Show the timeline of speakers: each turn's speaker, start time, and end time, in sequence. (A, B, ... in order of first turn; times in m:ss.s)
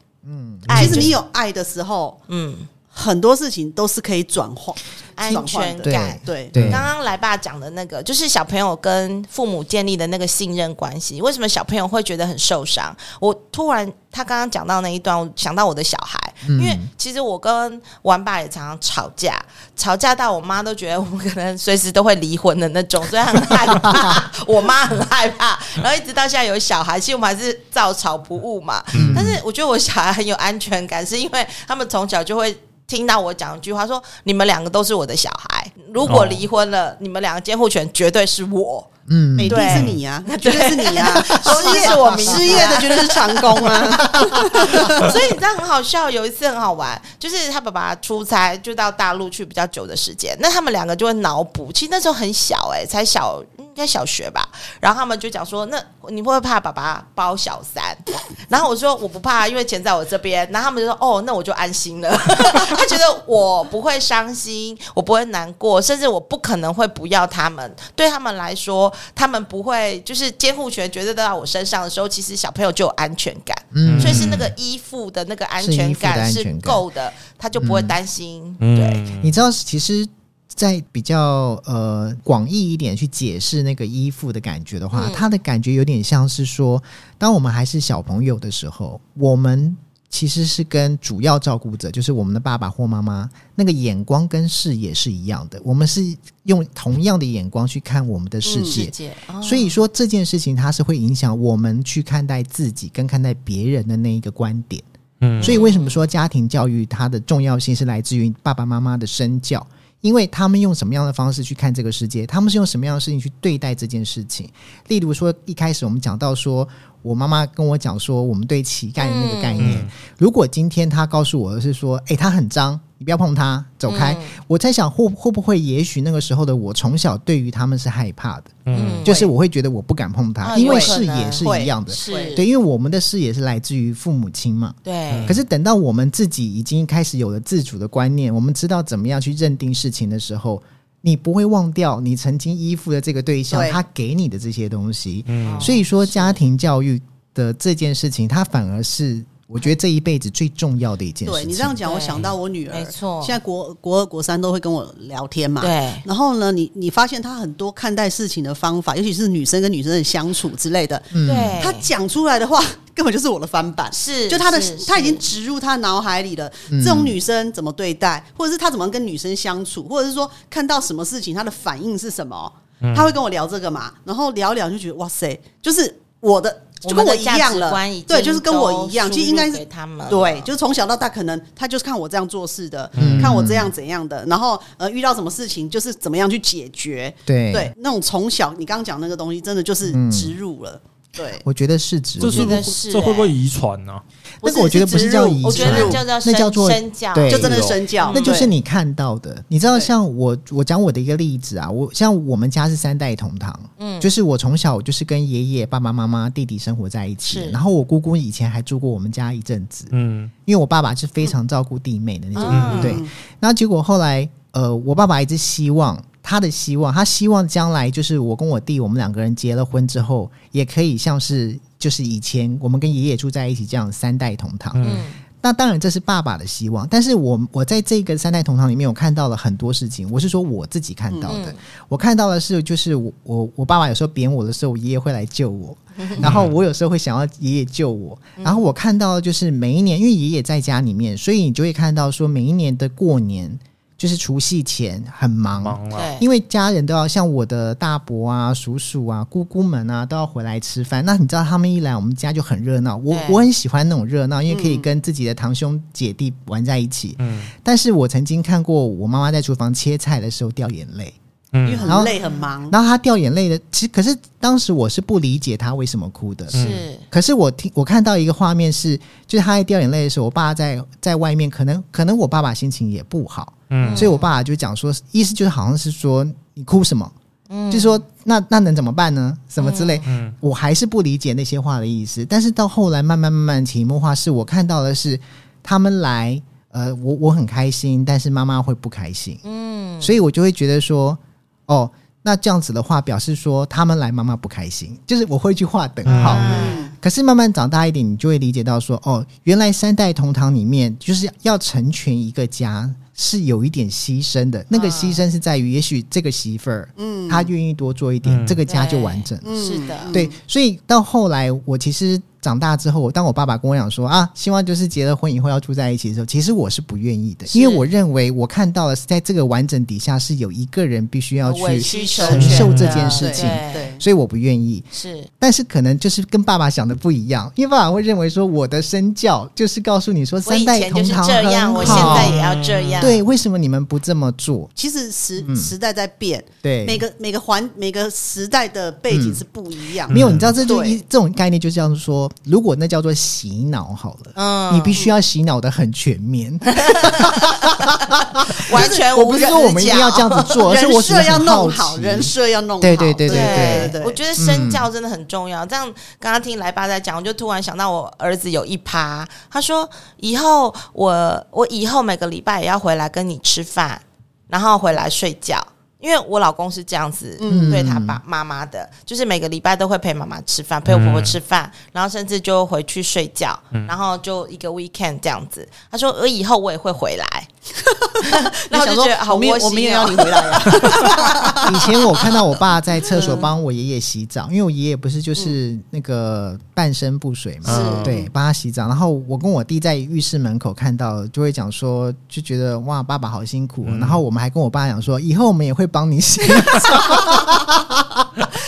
0:00.2-0:01.2 A
0:00.7-0:01.1 B
0:00.7-0:02.2 C
0:02.3-0:02.7 B
0:02.9-0:06.6 C
0:05.2-0:38.9 B
0:05.8-0:06.9 A
0:16.4-0:16.9 A
0:28.9-0:29.3 D
0:28.9-0:29.4 A
0:36.0-0:36.4 D
0:39.1-0:39.9 A
0:39.4-0:45.2 C
0:39.4-1:19.0 B
0:41.5-0:42.8 A
0:44.0-0:44.9 A
1:13.7-1:14.5 A
1:13.8-1:14.5 D
1:15.6-1:16.8 A
1:17.6-1:17.9 A
1:18.6-1:19.4 D
1:19.2-1:44.8 A
1:24.9-1:25.3 B
1:38.4-1:38.8 C
1:38.7-1:39.8 B
1:45.2-1:45.6 D
1:45.4-2:31.8 A
1:45.4-1:46.0 B
1:59.0-1:59.8 B
1:59.6-1:59.9 D
2:03.9-2:04.3 B
2:08.6-2:09.0 D
2:08.7-2:09.2 B
2:09.0-2:09.3 C
2:10.4-2:12.4 B
2:10.5-2:12.3 C
2:14.8-2:15.3 B
2:15.1-2:15.4 D
2:23.5-2:23.8 C
2:25.3-2:25.8 D
2:25.4-2:26.4 B
2:31.2-3:11.4 C
2:31.8-2:33.4 B
2:35.6-2:36.0 B
2:41.1-2:41.6 A
2:41.2-2:41.9 B
2:43.9-2:45.2 B
2:46.7-2:47.2 A
2:52.8-2:53.2 D
2:56.8-3:00.5 B
3:03.0-3:03.4 D
3:03.0-3:03.7 A
3:07.3-3:07.7 A
3:09.9-3:10.3 A
3:11.4-3:12.6 A
3:12.2-3:14.0 D
3:12.2-3:13.3 B
3:14.4-3:29.9 A
3:14.4-3:16.0 C
3:14.9-3:18.5 B
3:17.3-3:18.5 C
3:23.8-3:24.1 B
3:27.2-3:27.6 B
3:29.9-3:30.3 D
3:30.4-4:21.2 A
3:32.3-3:33.0 B
3:32.4-3:33.1 C
3:32.5-3:32.9 D
3:44.7-3:45.0 D
3:44.8-3:45.2 B
3:51.1-3:51.4 C
3:51.3-3:51.6 B
3:56.0-3:56.3 B
3:56.2-3:56.6 D
3:58.4-3:58.6 B
4:05.6-4:06.1 D
4:05.9-4:06.2 B
4:13.1-4:13.4 B
4:14.5-4:14.9 C
4:17.2-4:17.5 D
4:21.5-4:21.9 D
4:21.6-4:22.8 C
4:21.8-4:22.2 A
4:21.9-4:22.4 B
4:22.7-4:26.6 A
4:26.5-4:26.8 D
4:26.5-4:27.0 B
4:27.1-4:37.1 A
4:33.7-4:34.1 D
4:33.8-4:34.3 B
4:37.5-4:38.0 B
4:37.7-4:49.4 A
4:39.6-4:40.1 B
4:40.0-4:40.3 D
4:49.4-4:50.2 B
4:50.0-5:24.9 A
4:56.0-4:56.5 D
4:56.1-4:56.8 B
4:56.2-4:56.9 C
5:04.7-5:05.2 B
5:07.0-5:07.5 C
5:08.2-5:08.6 D
5:08.7-5:10.2 B
5:09.4-5:10.3 C
5:17.5-5:17.9 B
5:21.4-5:23.9 B
5:21.8-5:24.0 C
5:22.3-5:22.9 D
5:24.9-5:25.3 B
5:25.4-5:32.4 A
5:30.4-5:33.2 B
5:31.8-5:33.1 D
5:31.8-5:32.3 C
5:33.0-5:34.7 A
5:34.8-5:41.0 C
5:35.4-5:35.7 A
5:36.6-5:37.0 A
5:39.1-5:39.4 A
5:40.1-5:40.5 D
5:40.1-5:54.8 A
5:44.4-5:45.0 B
5:46.7-5:47.7 B
5:48.7-5:50.7 B
5:48.7-5:49.1 C
5:50.6-5:54.2 C
5:53.2-6:17.5 B
6:07.4-6:07.8 C
6:07.4-6:08.2 A
6:10.9-6:11.4 D
6:17.8-6:22.4 C
6:18.2-6:21.6 B
6:21.6-6:38.3 A
6:23.0-6:23.4 C
6:23.1-6:23.5 B
6:27.6-6:28.2 D
6:27.6-6:28.1 B
6:28.0-6:28.3 C
6:33.8-6:34.2 D
6:36.6-6:37.5 C